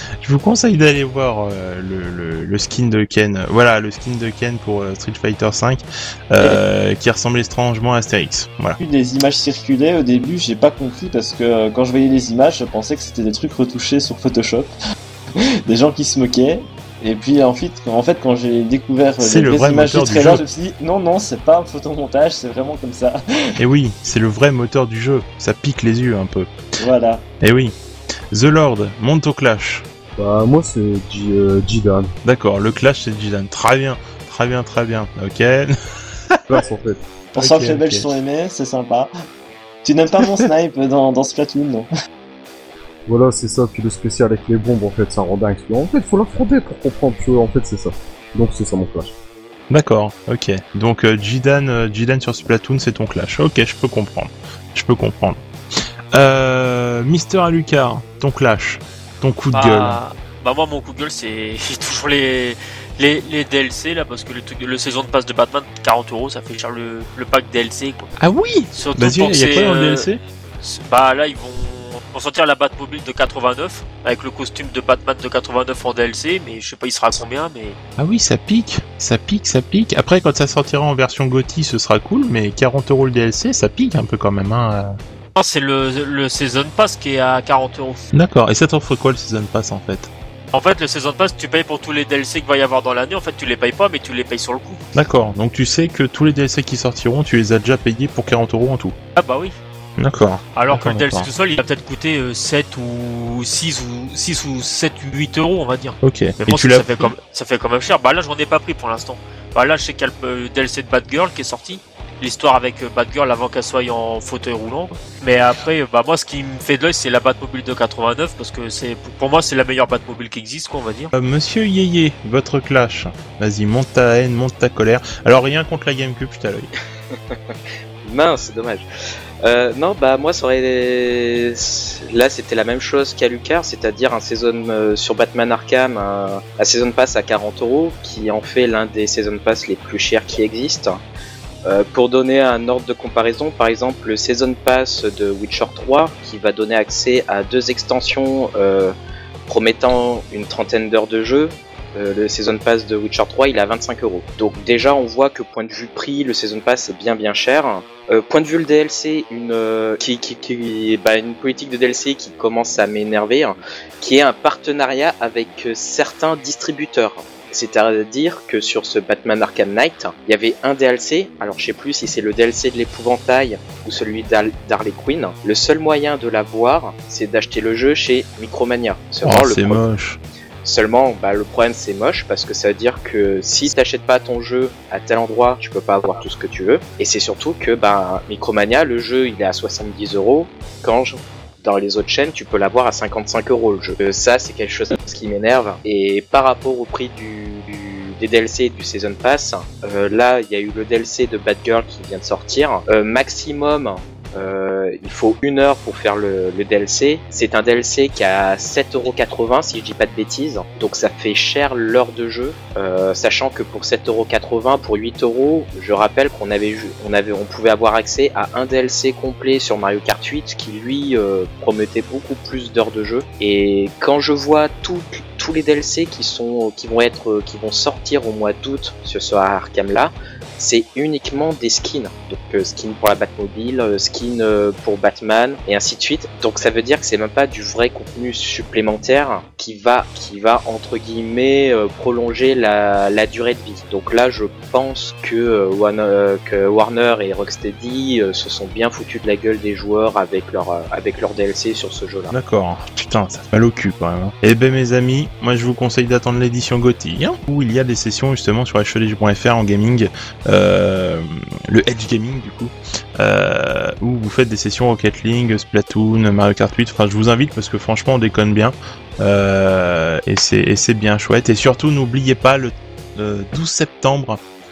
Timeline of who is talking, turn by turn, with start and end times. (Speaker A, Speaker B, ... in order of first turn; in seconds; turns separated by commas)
Speaker A: 0.2-8.8, Speaker B: 8.8-14.7, Speaker B: 15.7-23.2, Speaker A: 19.2-20.4, Speaker A: 23.6-26.5, Speaker B: 26.8-27.2, Speaker A: 27.4-27.7, Speaker A: 28.3-29.8, Speaker C: 30.2-32.1, Speaker A: 32.2-35.7, Speaker A: 36.3-36.6, Speaker C: 36.5-37.0, Speaker B: 37.3-39.1, Speaker A: 37.4-38.0, Speaker B: 39.8-41.9, Speaker C: 43.1-49.1, Speaker A: 49.7-55.4, Speaker A: 56.1-60.0, Speaker D: 59.5-68.1, Speaker A: 68.2-70.2, Speaker D: 68.7-70.0, Speaker D: 70.6-77.8, Speaker A: 78.0-84.9, Speaker D: 85.3-88.0, Speaker A: 88.1-90.1, Speaker D: 90.5-94.8, Speaker A: 94.9-98.9, Speaker D: 99.2-99.6, Speaker A: 100.0-101.3, Speaker D: 100.5-121.1, Speaker A: 106.0-107.1, Speaker A: 121.1-126.7, Speaker E: 127.1-128.9, Speaker E: 129.4-141.0, Speaker E: 141.6-148.9, Speaker E: 149.5-179.8, Speaker A: 179.2-180.2, Speaker E: 180.6-252.3, Speaker A: 252.3-274.4